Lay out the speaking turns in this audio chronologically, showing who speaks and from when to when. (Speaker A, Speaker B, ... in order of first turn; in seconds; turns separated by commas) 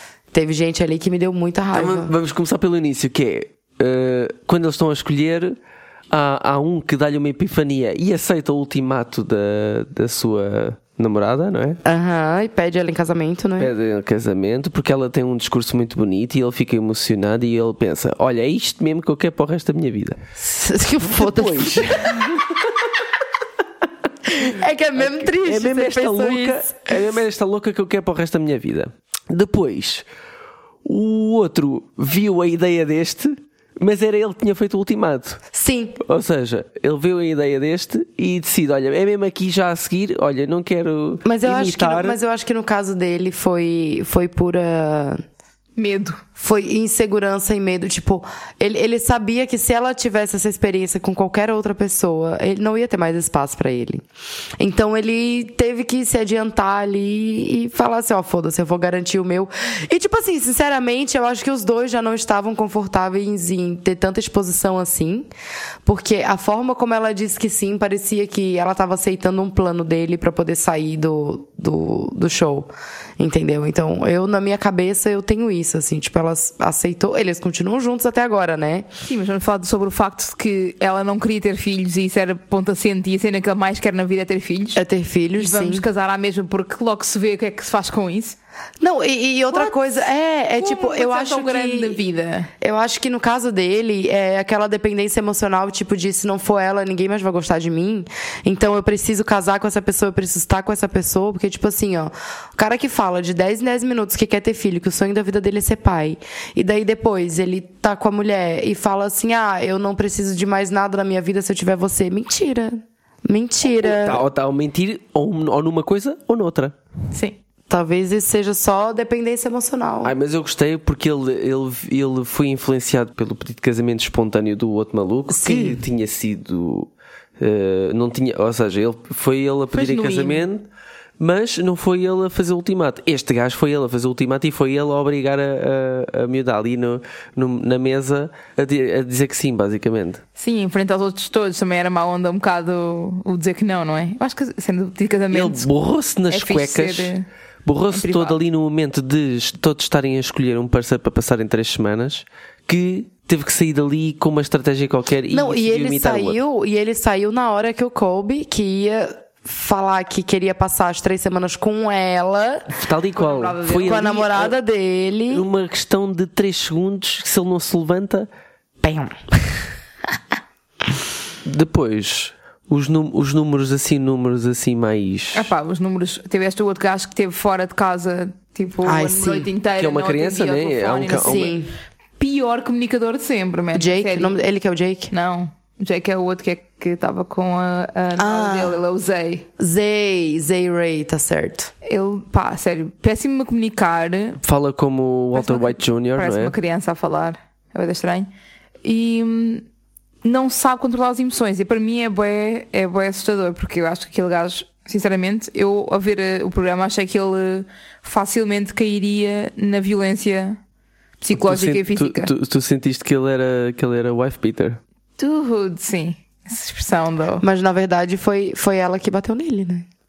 Speaker A: 0.3-2.1, Speaker B: 1.7-5.5, Speaker B: 6.1-11.8, Speaker A: 11.8-13.7, Speaker B: 13.6-20.2, Speaker A: 20.4-22.2, Speaker B: 21.1-22.7, Speaker A: 24.2-27.0, Speaker B: 24.9-30.0, Speaker B: 30.8-35.4, Speaker A: 35.5-36.0, Speaker B: 36.0-42.2, Speaker A: 41.2-45.2, Speaker C: 45.8-46.2, Speaker A: 46.4-54.0, Speaker A: 54.6-65.3, Speaker A: 65.8-78.9, Speaker C: 79.0-84.8, Speaker A: 84.8-85.9, Speaker C: 85.4-88.4, Speaker A: 88.8-92.0, Speaker C: 89.5-89.8, Speaker C: 90.6-92.5, Speaker A: 92.6-114.2, Speaker B: 113.7-116.8, Speaker A: 117.7-120.1, Speaker B: 120.0-126.9, Speaker A: 125.3-125.8, Speaker B: 127.4-130.6, Speaker C: 129.7-130.4, Speaker B: 131.2-140.2, Speaker C: 140.4-145.7, Speaker B: 145.3-147.1, Speaker C: 146.3-147.2, Speaker B: 147.6-156.4, Speaker C: 147.9-148.4, Speaker A: 155.3-162.7, Speaker B: 162.7-164.5, Speaker C: 163.2-164.1, Speaker A: 163.8-165.5, Speaker B: 165.3-168.3, Speaker A: 168.8-169.3, Speaker B: 171.4-175.5, Speaker C: 175.3-181.6, Speaker A: 178.8-179.5, Speaker B: 179.8-181.5, Speaker A: 181.1-181.7, Speaker C: 182.2-184.3, Speaker A: 183.7-185.1, Speaker C: 185.1-189.4, Speaker A: 188.2-188.8, Speaker A: 189.6-191.7, Speaker C: 191.8-194.4, Speaker B: 194.4-196.5, Speaker C: 195.3-198.3, Speaker C: 198.8-199.6, Speaker C: 200.2-210.6, Speaker C: 211.2-212.3, Speaker B: 211.3-214.8, Speaker C: 215.2-217.4, Speaker A: 217.4-219.8